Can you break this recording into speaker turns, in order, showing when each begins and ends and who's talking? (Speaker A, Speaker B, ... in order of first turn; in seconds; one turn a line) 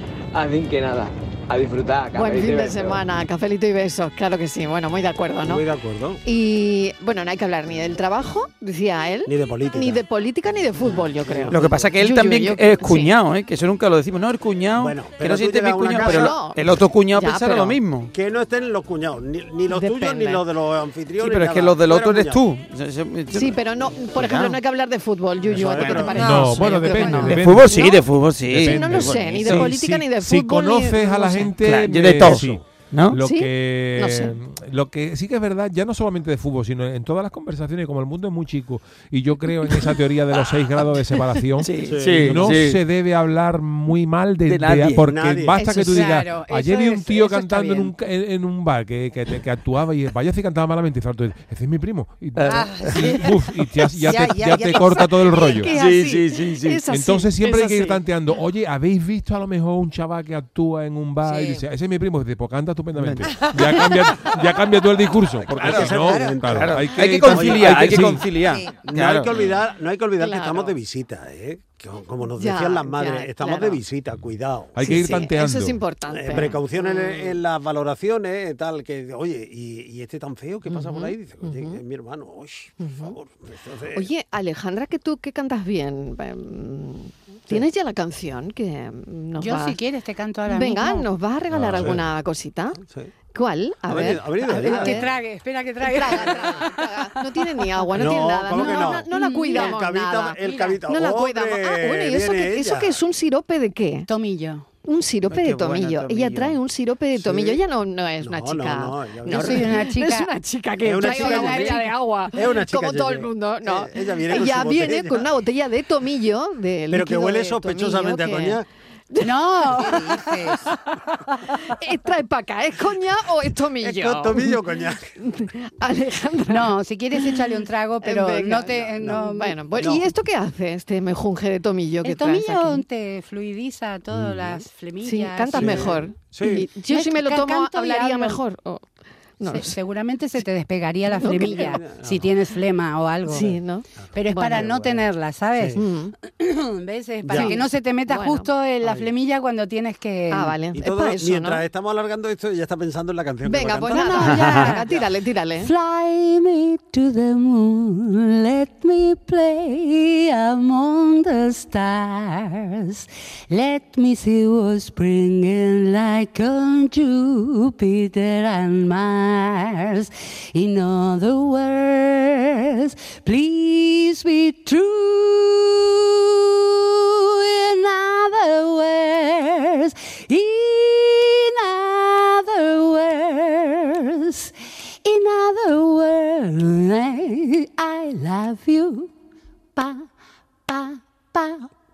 Speaker A: 0.3-3.0
Speaker B: 2.1-5.6
Speaker C: 5.5-6.2
Speaker B: 6.2-13.1
Speaker C: 9.3-10.0
Speaker C: 10.8-11.9
Speaker D: 11.5-18.1
Speaker C: 14.8-16.4
Speaker B: 16.0-16.6
Speaker B: 17.1-17.8
Speaker C: 18.1-22.4
Speaker B: 19.7-20.4
Speaker D: 21.2-23.6
Speaker B: 23.3-31.5
Speaker D: 24.1-24.6
Speaker C: 25.4-26.3
Speaker D: 25.6-26.4
Speaker E: 26.1-27.4
Speaker F: 26.2-55.7
Speaker D: 27.1-29.7
Speaker D: 31.6-33.2
Speaker C: 32.3-32.6
Speaker B: 33.2-34.4
Speaker D: 41.6-42.8
Speaker C: 41.9-42.6
Speaker D: 44.5-45.1
Speaker C: 45.0-45.6
Speaker G: 45.6-47.9
Speaker B: 45.6-46.1
Speaker D: 52.4-52.6
Speaker E: 52.5-55.6
Speaker B: 54.6-58.0
Speaker D: 55.7-56.8
Speaker F: 56.9-68.3
Speaker E: 61.2-61.7
Speaker D: 63.0-63.3
Speaker E: 63.2-64.4
Speaker C: 65.4-68.1
Speaker D: 65.6-65.9
Speaker E: 65.7-66.4
Speaker D: 66.5-69.4
Speaker E: 68.3-68.8
Speaker C: 68.8-75.1
Speaker B: 70.2-70.8
Speaker B: 72.4-73.8
Speaker F: 74.8-75.8
Speaker B: 74.8-77.4
Speaker C: 76.1-84.1
Speaker B: 80.7-81.8
Speaker B: 82.8-83.2
Speaker B: 83.9-89.8
Speaker G: 89.4-91.1
Speaker B: 90.5-92.8
Speaker F: 91.5-92.0
Speaker C: 92.8-93.1
Speaker B: 93.3-95.1
Speaker C: 93.9-95.1
Speaker G: 94.5-97.9
Speaker B: 95.8-104.1
Speaker C: 98.0-103.0
Speaker G: 98.5-99.8
Speaker G: 104.1-104.7
Speaker B: 104.8-118.6
Speaker D: 105.3-106.6
Speaker C: 107.2-107.6
Speaker C: 108.2-109.8
Speaker G: 109.3-110.3
Speaker C: 110.8-111.8
Speaker G: 111.0-112.0
Speaker C: 112.3-115.3
Speaker C: 116.9-118.7
Speaker G: 119.2-120.2
Speaker E: 119.7-120.7
Speaker B: 121.5-124.5
Speaker C: 123.8-125.1
Speaker B: 125.2-127.4
Speaker G: 126.5-129.9
Speaker B: 128.0-132.8
Speaker C: 128.9-129.2
Speaker C: 129.8-130.1
Speaker G: 132.0-136.0
Speaker F: 134.1-134.6
Speaker B: 135.0-138.8
Speaker C: 135.6-136.7
Speaker G: 136.8-138.4
Speaker B: 139.4-139.8
Speaker G: 139.5-143.6
Speaker B: 141.1-141.8
Speaker C: 141.4-142.3
Speaker B: 143.3-144.7
Speaker C: 143.3-144.9
Speaker G: 144.1-150.6
Speaker B: 145.8-146.1
Speaker C: 147.2-147.6
Speaker B: 147.3-148.5
Speaker B: 150.3-151.6
Speaker C: 150.8-155.0
Speaker B: 153.4-155.7
Speaker G: 153.9-154.9
Speaker D: 154.3-154.6
Speaker G: 155.6-189.1
Speaker G: 189.8-190.1
Speaker G: 190.7-191.7